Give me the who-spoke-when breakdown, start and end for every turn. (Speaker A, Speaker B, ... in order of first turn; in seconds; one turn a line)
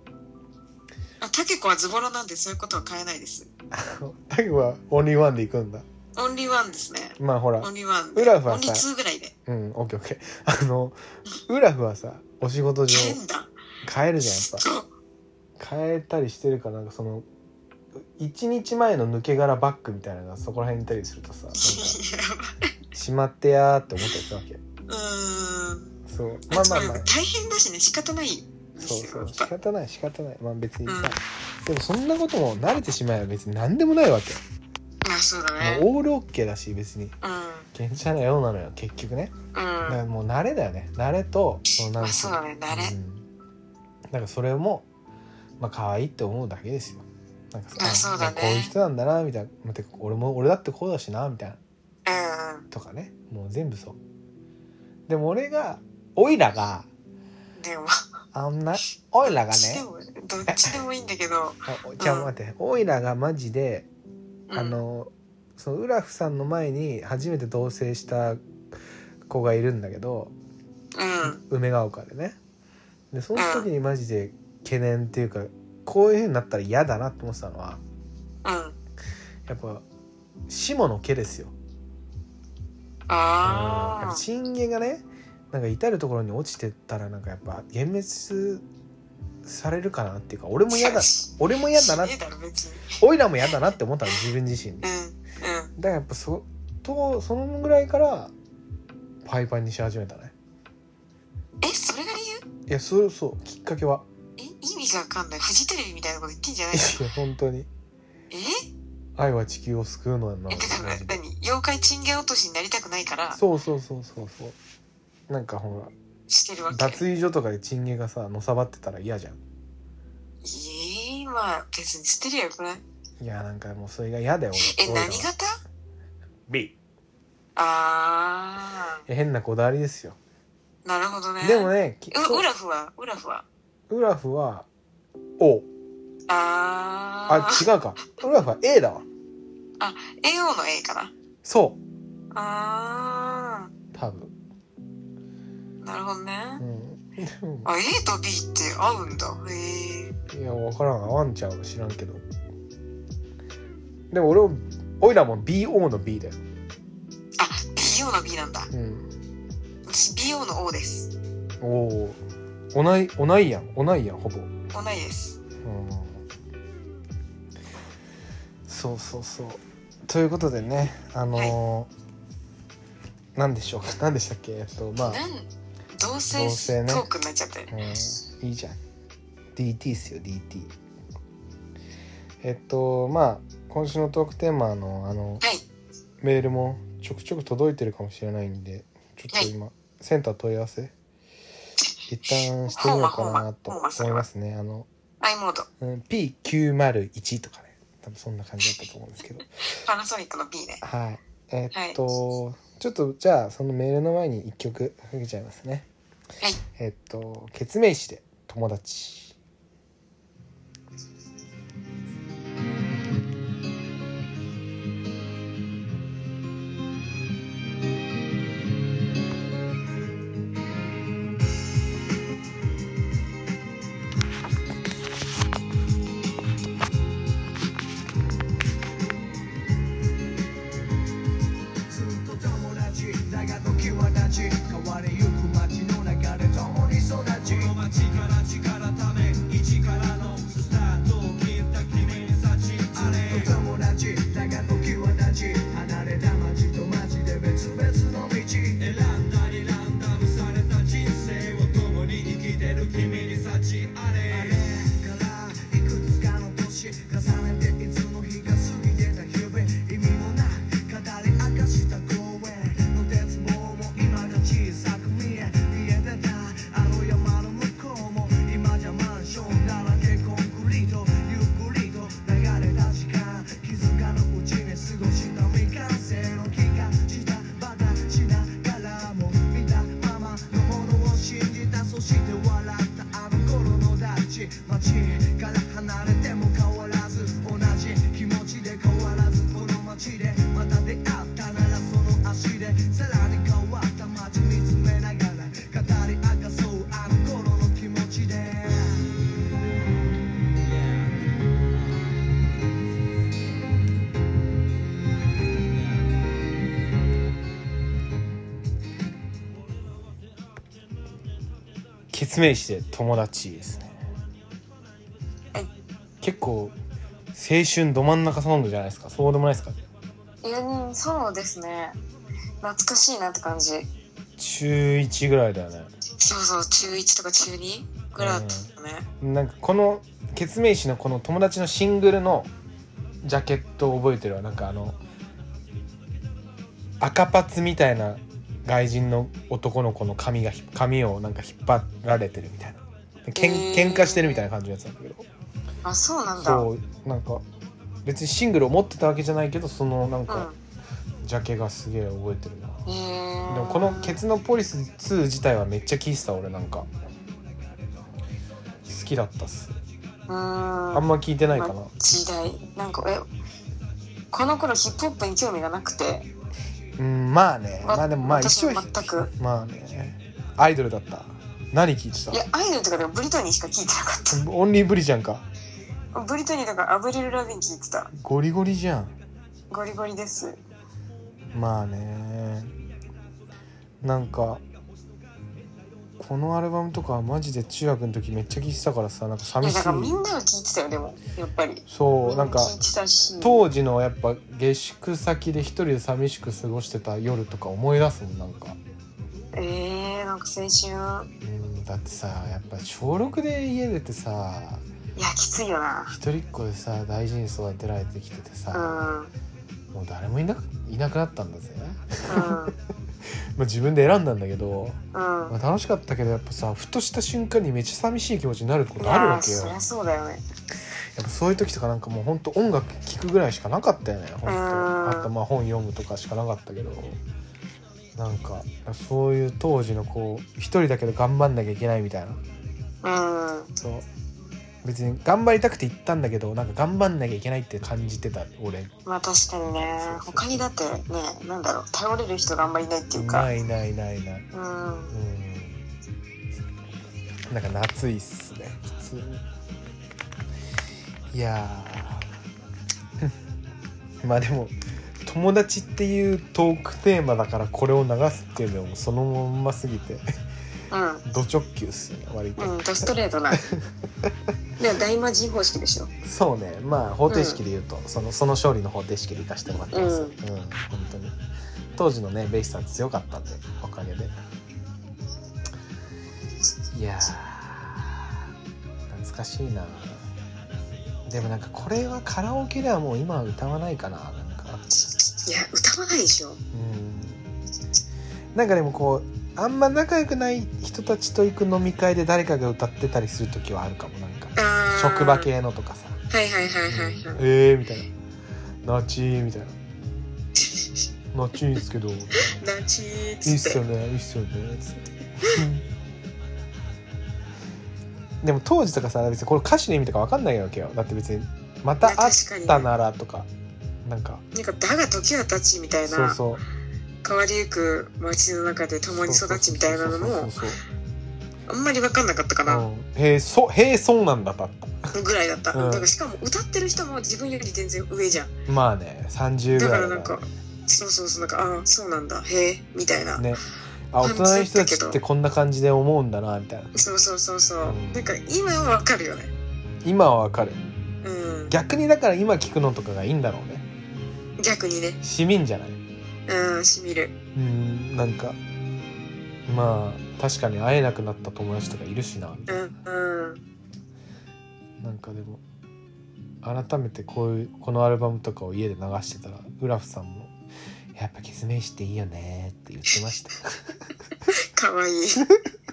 Speaker A: 1.2-3.5
Speaker B: 3.7-5.9
Speaker A: 6.2-9.3
Speaker B: 7.2-8.8
Speaker B: 9.4-13.2
Speaker A: 12.9-13.5
Speaker B: 13.8-14.7
Speaker A: 14.2-14.9
Speaker B: 15.6-17.2
Speaker B: 18.2-22.0
Speaker A: 21.5-22.7
Speaker B: 22.9-24.6
Speaker A: 24.9-25.9
Speaker B: 26.1-27.1
Speaker A: 26.5-29.5
Speaker B: 28.8-34.4
Speaker A: 30.9-31.2
Speaker A: 35.0-35.9
Speaker B: 35.6-37.1
Speaker A: 37.2-37.7
Speaker B: 37.7-39.3
Speaker A: 39.5-40.0
Speaker B: 39.9-43.2
Speaker A: 41.7-43.0
Speaker B: 44.1-44.9
Speaker B: 45.6-51.6
Speaker A: 47.8-48.7
Speaker A: 52.0-52.7
Speaker B: 52.7-54.0
Speaker B: 55.1-56.9
Speaker A: 57.6-58.0
Speaker B: 58.3-59.9
Speaker A: 59.2-62.3
Speaker B: 60.5-60.8
Speaker B: 61.7-63.9
Speaker A: 64.5-64.8
Speaker B: 64.5-68.4
Speaker B: 69.3-70.3
Speaker A: 70.9-71.4
Speaker B: 71.2-72.4
Speaker B: 73.1-77.8
Speaker A: 73.3-73.7
Speaker A: 78.4-78.8
Speaker B: 79.5-79.8
Speaker B: 80.5-81.5
Speaker A: 83.1-84.2
Speaker B: 83.4-88.6
Speaker B: 89.4-92.2
Speaker A: 90.7-93.0
Speaker B: 93.0-94.9
Speaker A: 94.8-95.7
Speaker B: 95.8-98.3
Speaker B: 99.2-100.3
Speaker A: 101.6-102.4
Speaker B: 102.7-104.0
Speaker A: 104.4-107.0
Speaker B: 106.7-107.7
Speaker A: 108.3-108.7
Speaker B: 109.2-111.2
Speaker A: 110.5-113.4
Speaker B: 113.3-114.6
Speaker B: 115.3-115.9
Speaker A: 116.3-117.0
Speaker B: 116.7-119.4
Speaker A: 120.4-122.8
Speaker B: 123.2-125.3
Speaker A: 124.6-125.6
Speaker B: 126.5-126.7
Speaker A: 127.5-129.0
Speaker B: 129.1-130.2
Speaker A: 130.8-133.4
Speaker B: 131.4-132.4
Speaker B: 133.9-134.7
Speaker B: 135.4-135.7
Speaker A: 136.3-137.6
Speaker B: 137.3-139.0
Speaker A: 139.8-141.1
Speaker B: 141.4-141.8
Speaker A: 142.3-143.7
Speaker B: 143.9-144.3
Speaker A: 145.8-146.6
Speaker B: 146.6-147.7
Speaker A: 147.6-150.2
Speaker B: 150.3-152.2
Speaker B: 154.1-156.4
Speaker A: 157.4-158.7
Speaker B: 158.7-159.1
Speaker A: 159.9-161.1
Speaker B: 161.6-162.2
Speaker B: 162.7-164.5
Speaker A: 164.7-165.4
Speaker B: 165.6-166.2
Speaker B: 168.7-171.9
Speaker B: 173.4-175.2
Speaker A: 175.0-177.7
Speaker B: 176.3-177.1
Speaker B: 177.7-178.8
Speaker B: 179.5-180.7
Speaker B: 182.4-185.4
Speaker B: 186.2-190.9
Speaker B: 192.1-194.9
Speaker A: 192.7-194.2
Speaker A: 195.2-195.7
Speaker B: 195.8-199.5
Speaker A: 199.7-200.8
Speaker B: 200.8-205.9
Speaker A: 201.7-202.0
Speaker B: 206.8-209.3
Speaker C: 231.9-299.1
Speaker B: 312.1-313.9
Speaker B: 316.2-316.7
Speaker B: 317.3-319.8
Speaker A: 320.4-322.0
Speaker A: 322.6-323.9
Speaker B: 324.4-325.9
Speaker A: 326.2-329.1
Speaker B: 328.2-328.7
Speaker B: 329.2-332.5
Speaker B: 333.2-335.0
Speaker B: 337.0-345.3
Speaker A: 343.4-344.4
Speaker A: 345.8-346.7
Speaker B: 346.4-347.4
Speaker B: 348.0-350.5
Speaker A: 350.3-350.6
Speaker B: 351.2-352.8
Speaker A: 352.9-354.2
Speaker B: 353.5-356.9
Speaker B: 358.9-359.8
Speaker A: 360.3-363.2
Speaker B: 360.9-361.9
Speaker A: 364.3-366.3
Speaker B: 367.0-372.4
Speaker A: 367.8-369.3
Speaker A: 372.3-374.4
Speaker B: 374.3-375.4
Speaker A: 376.1-378.1
Speaker B: 378.1-379.1
Speaker A: 379.7-380.6
Speaker B: 381.5-382.7
Speaker B: 384.0-384.6
Speaker B: 386.2-390.2
Speaker A: 389.6-393.6
Speaker B: 391.9-392.8
Speaker B: 393.4-398.8
Speaker A: 399.5-401.3
Speaker B: 401.4-404.8
Speaker A: 405.1-406.1
Speaker B: 406.1-409.1
Speaker A: 408.7-409.3
Speaker B: 409.9-412.7
Speaker A: 412.3-412.7
Speaker B: 413.5-415.0
Speaker A: 415.1-415.5
Speaker B: 415.5-419.8
Speaker A: 419.0-420.4
Speaker B: 421.1-427.2
Speaker A: 424.4-425.3
Speaker B: 428.1-432.4
Speaker A: 433.0-433.7
Speaker B: 433.8-434.1
Speaker B: 434.8-438.9
Speaker A: 439.1-443.5
Speaker B: 439.7-440.7
Speaker B: 443.1-444.4
Speaker A: 444.5-445.1
Speaker B: 445.1-445.8
Speaker B: 447.5-449.4
Speaker B: 451.3-452.3
Speaker B: 454.2-460.2
Speaker A: 460.9-461.2
Speaker B: 461.2-464.3
Speaker A: 462.6-463.6
Speaker A: 464.8-466.1
Speaker B: 466.2-471.4
Speaker A: 467.3-467.6
Speaker A: 469.9-470.4
Speaker B: 471.9-474.3
Speaker B: 476.9-478.3
Speaker B: 479.1-480.2
Speaker B: 481.2-484.8
Speaker A: 485.3-486.6
Speaker B: 486.7-487.4
Speaker B: 488.5-496.2
Speaker A: 494.6-495.5
Speaker A: 496.3-497.4
Speaker B: 496.9-498.1
Speaker B: 498.8-499.8
Speaker B: 501.3-502.6
Speaker A: 502.4-503.8
Speaker B: 503.4-505.9
Speaker B: 508.4-513.5
Speaker A: 512.0-512.9
Speaker B: 514.0-514.4
Speaker A: 514.5-516.4
Speaker B: 516.0-516.6
Speaker A: 517.2-520.5
Speaker B: 519.1-520.8
Speaker A: 521.7-522.9
Speaker B: 522.6-525.1
Speaker A: 525.1-528.5
Speaker B: 525.7-526.1
Speaker B: 528.7-530.5
Speaker A: 529.7-533.5
Speaker B: 533.4-536.9
Speaker A: 534.2-535.2
Speaker A: 536.9-539.5
Speaker B: 537.8-538.2
Speaker B: 540.0-540.8
Speaker A: 541.2-541.7
Speaker B: 541.7-543.9
Speaker A: 544.6-545.2
Speaker B: 545.2-546.0
Speaker A: 546.5-547.4
Speaker B: 547.5-548.6
Speaker B: 549.7-552.9
Speaker A: 552.7-553.6
Speaker B: 555.0-555.6
Speaker B: 556.6-560.5
Speaker B: 561.1-563.8
Speaker A: 564.5-565.5